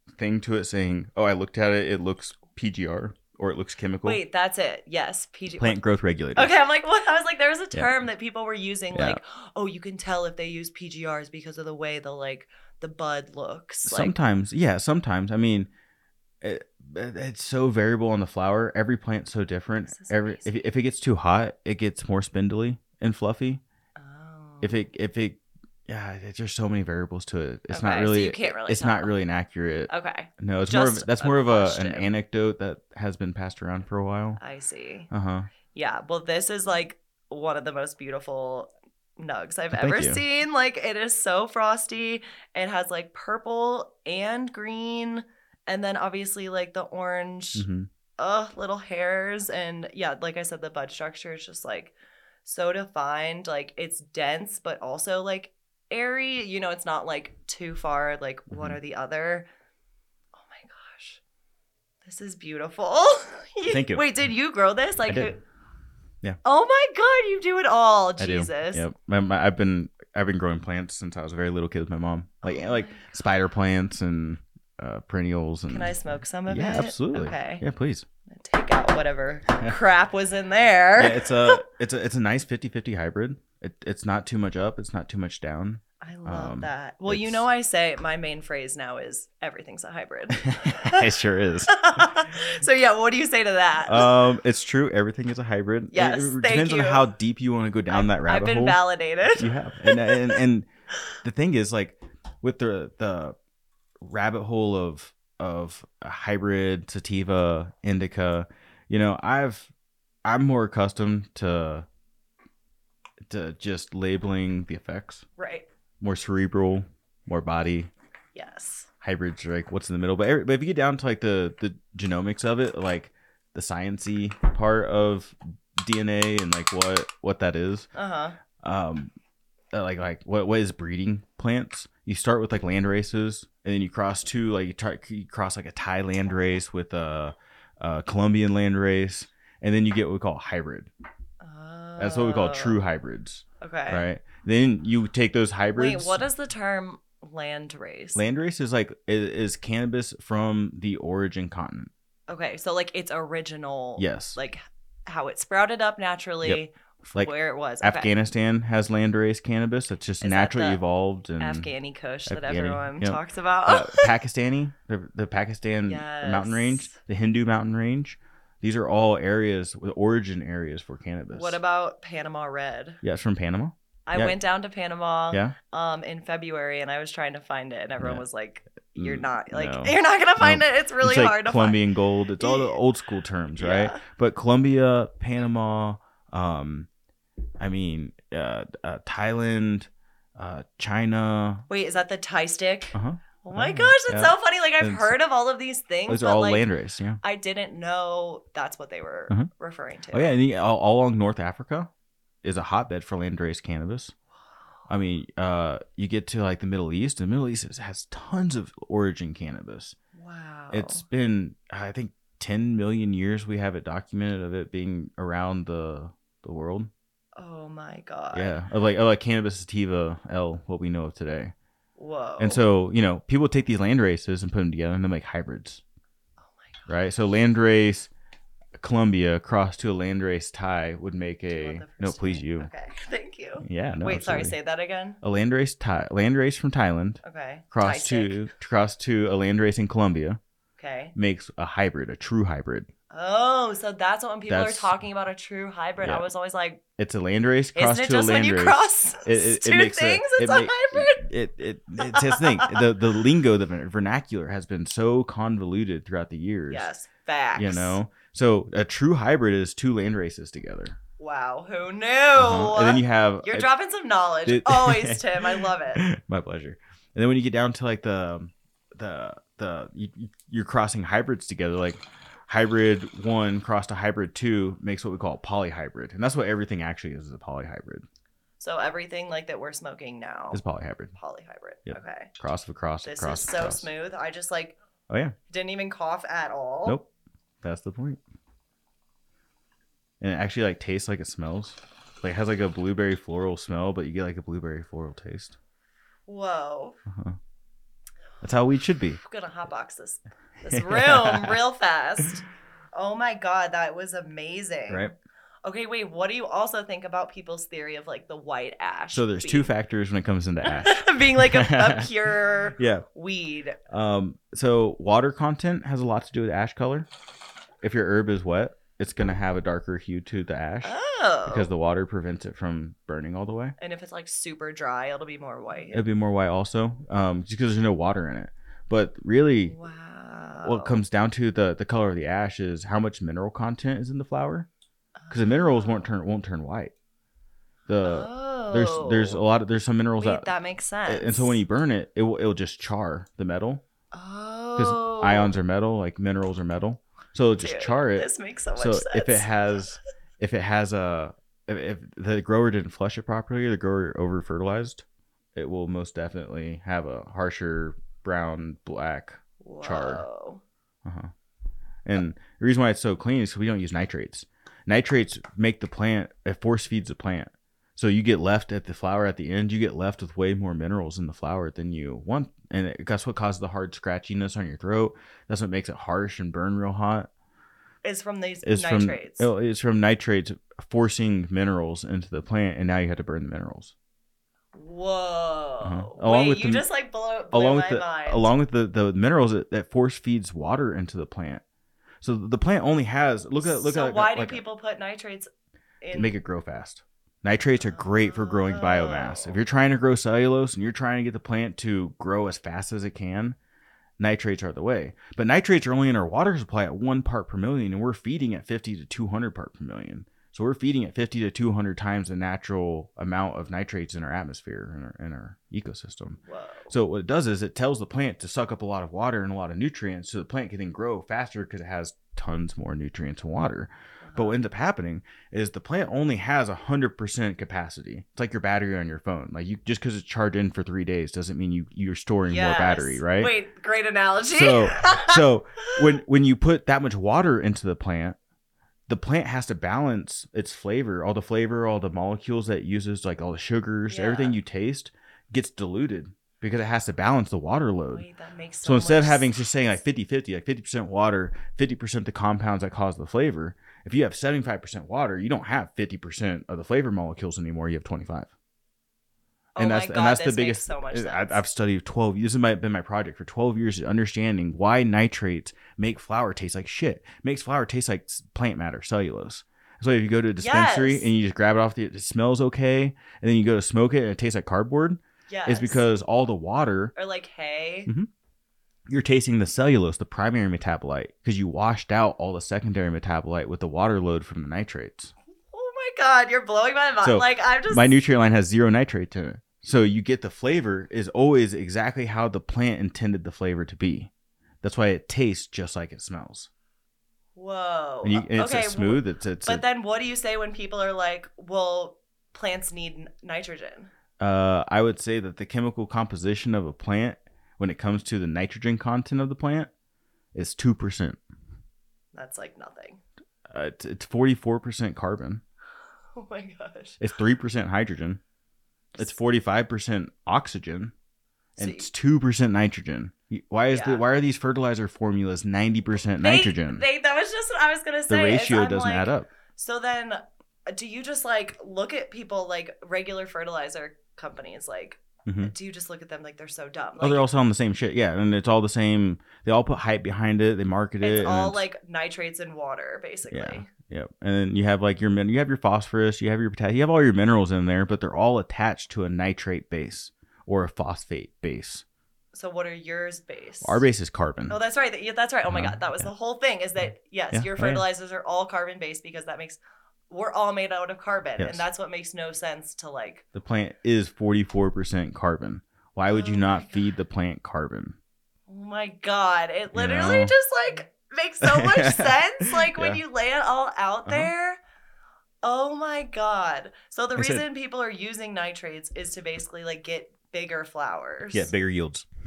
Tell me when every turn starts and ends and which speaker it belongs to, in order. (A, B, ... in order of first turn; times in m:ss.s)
0:00.1-0:04.2 A
0:04.0-0:05.8 B
0:05.6-0:06.5 A
0:06.4-0:14.1 B
0:08.9-0:09.2 A
0:13.9-0:15.7 A
0:16.4-0:23.6 A
0:19.9-0:20.5 B
0:24.0-0:24.8 B
0:24.6-0:34.4 A
0:27.7-0:29.1 B
0:29.9-0:32.1 B
0:34.4-0:35.1 B
0:35.1-0:35.5 A
0:35.7-0:47.7 B
0:39.7-0:40.2 A
0:47.6-0:47.9 A
0:48.2-0:51.9 B
0:52.4-0:59.5 B
0:58.5-0:58.8 A
1:00.4-1:01.2 B
1:02.0-1:05.4 B
1:03.7-1:04.0 A
1:06.4-1:08.9 B
1:08.2-1:16.0 A
1:12.4-1:13.1 B
1:15.7-1:17.6 B
1:16.5-1:18.1 A
1:18.3-1:21.6 B
1:21.0-1:27.4 A
1:26.0-1:31.1 B
1:30.4-1:32.1 A
1:31.7-1:34.1 B
1:33.9-1:38.8 A
1:35.9-1:37.1 B
1:37.9-1:40.4 B
1:39.3-1:40.7 A
1:41.2-1:43.4 A
1:44.0-1:49.7 A
1:50.2-1:51.9 A
1:53.3-1:55.3 A
1:55.4-1:55.7 B
1:56.0-1:57.9 A
1:58.4-1:58.9 B
1:59.0-2:07.9 A
2:08.0-2:08.4 B
2:08.6-2:09.1 A
2:09.7-2:20.9 A
2:21.4-2:22.8 B
2:22.0-2:26.3 A
2:23.6-2:24.1 B
2:25.7-2:28.2 B
2:28.1-2:31.9 A
2:32.3-2:38.1 B
2:34.0-2:34.4 A
2:37.1-2:41.7 A
2:40.2-2:40.8 B
2:41.4-2:44.1 B
2:42.3-2:51.6 A
2:45.9-2:47.0 B
2:51.3-2:53.0 B
2:53.0-2:54.4 A
2:54.1-3:01.8 B
2:58.9-3:06.9 A
3:02.4-3:02.8 B
3:03.6-3:04.0 B
3:07.6-3:11.6 A
3:11.7-3:16.7 B
3:12.9-3:15.2 A
3:16.1-3:17.2 A
3:17.2-3:20.4 B
3:20.1-3:21.9 A
3:22.4-3:24.1 A
3:24.9-3:30.0 A
3:30.1-3:31.0 B
3:30.7-3:36.9 A
3:37.4-3:38.6 B
3:38.3-3:41.5 A
3:42.0-3:42.6 B
3:42.4-3:45.8 A
3:46.5-3:46.8 B
3:46.9-3:48.1 A
3:48.8-3:52.7 A
3:51.5-3:55.2 B
3:53.6-3:54.6 A
3:55.2-4:00.4 A
3:57.2-3:58.4 B
4:00.8-4:01.1 B
4:01.1-4:02.9 A
4:03.1-4:06.8 B
4:04.5-4:04.9 A
4:06.0-4:06.2 A
4:07.0-4:16.9 A
4:07.8-4:11.2 B
4:12.0-4:12.8 B
4:16.7-4:18.0 B
4:17.6-4:21.0 A
4:21.2-4:26.0 B
4:22.4-4:23.7 A
4:24.4-4:38.0 A
4:38.6-4:40.6 B
4:40.5-4:41.2 A
4:41.1-4:42.3 B
4:41.9-4:43.9 A
4:43.0-4:44.8 B
4:45.1-4:45.4 A
4:45.5-4:47.0 B
4:47.6-4:48.2 A
4:50.2-4:55.6 A
4:56.3-4:57.0 B
4:57.1-4:57.4 A
4:58.4-4:59.2 A
4:59.2-5:05.1 B
5:00.7-5:01.6 A
5:05.6-5:09.7 B
5:09.1-5:12.1 A
5:10.7-5:13.8 B
5:12.8-5:13.1 A
5:13.9-5:17.1 A
5:17.8-5:23.8 A
5:20.8-5:21.7 B
5:23.8-5:26.1 B
5:25.9-5:29.8 A
5:29.6-5:31.0 B
5:30.6-5:34.7 A
5:35.2-5:36.1 B
5:35.3-5:36.9 A
5:37.9-5:40.5 A
5:38.0-5:39.4 B
5:40.2-5:41.6 B
5:41.1-5:43.8 A
5:44.1-5:45.6 B
5:44.8-6:00.2 A
5:47.6-5:49.5 B
5:59.6-6:00.6 B
6:01.0-6:01.3 A
6:02.0-6:17.3 A
6:18.0-6:19.5 B
6:18.6-6:23.9 A
6:24.7-6:28.5 B
6:25.8-6:26.9 A
6:27.5-6:31.6 A
6:32.2-6:34.6 A
6:33.6-6:35.5 B
6:36.0-6:36.4 B
6:36.1-6:43.6 A
6:37.8-6:39.6 B
6:44.2-7:13.5 A
6:56.5-6:56.9 B
7:04.2-7:04.6 B
7:12.5-7:16.0 B
7:14.5-7:18.4 A
7:19.1-7:28.2 A
7:24.1-7:24.6 B
7:28.1-7:29.5 B
7:28.8-7:38.5 A
7:39.8-7:41.6 B
7:39.8-7:57.1 A
7:50.6-7:51.3 B
7:55.5-7:56.1 B
7:57.2-7:58.1 B
7:59.1-8:05.3 A
8:05.7-8:08.2 B
8:07.2-8:14.3 A
8:14.8-8:16.7 A
8:17.6-8:24.1 B
8:18.2-8:19.8 A
8:24.4-8:29.9 A
8:30.5-8:31.4 A
8:32.3-8:33.2 B
8:33.7-8:35.6 A
8:36.4-8:37.2 B
8:37.2-8:38.4 A
8:39.2-8:41.1 A
8:41.8-8:42.1 B
8:41.8-8:47.0 A
8:43.9-8:44.2 B
8:46.4-8:57.5 B
8:48.3-8:49.5 A
8:55.4-8:55.7 A
8:57.2-9:01.8 A
9:01.2-9:03.9 B
9:03.5-9:12.0 A
9:12.5-9:14.0 B
9:13.8-9:14.8 A
9:14.7-9:23.4 B
9:15.7-9:16.3 A
9:17.5-9:18.0 A
9:23.6-9:28.2 A
9:26.3-9:27.0 B
9:28.7-9:34.8 B
9:29.9-9:30.5 A
9:31.6-9:33.2 A
9:34.2-9:34.5 A
9:35.6-9:41.7 B
9:37.4-9:37.6 A
9:41.5-9:42.3 A